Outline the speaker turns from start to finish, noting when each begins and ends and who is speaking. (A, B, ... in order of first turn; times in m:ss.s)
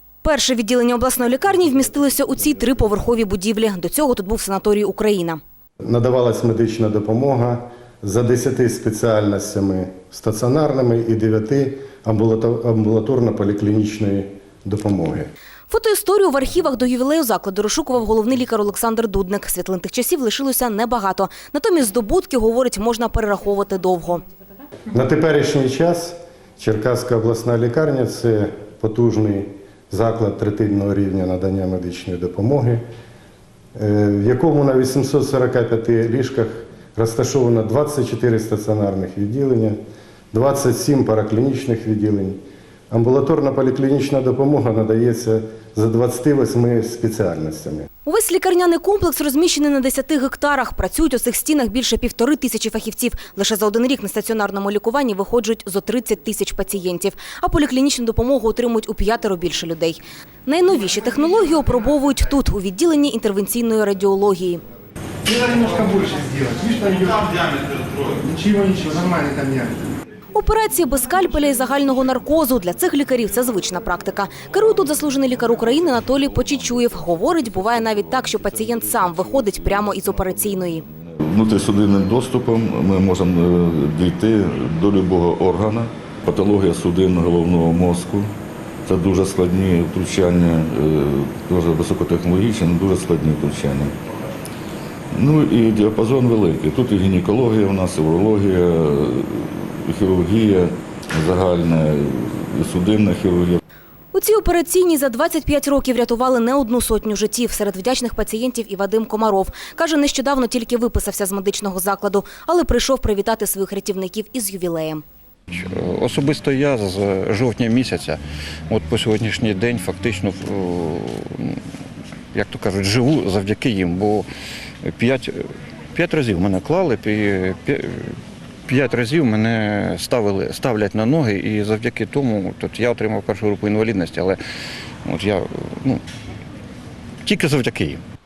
0:00.2-0:05.4 A
0:05.8-0:15.3 B
0:15.7-0:24.2 A
0:24.9-0:32.8 B
0:33.8-0:39.8 B
0:40.3-0:42.4 B
0:42.9-0:47.9 B
0:48.1-1:04.6 A
1:05.2-1:07.5 C
1:08.1-1:10.0 C
1:10.3-1:20.8 A
1:16.0-1:28.3 D
1:28.9-1:33.9 D
1:35.1-1:43.6 D
1:44.1-1:55.0 A
1:55.5-2:01.6 E
2:02.3-2:04.3 E
2:04.8-2:05.4 E
2:05.9-2:08.1 E
2:08.7-2:14.4 E
2:15.1-2:16.0 E
2:17.2-2:18.0 E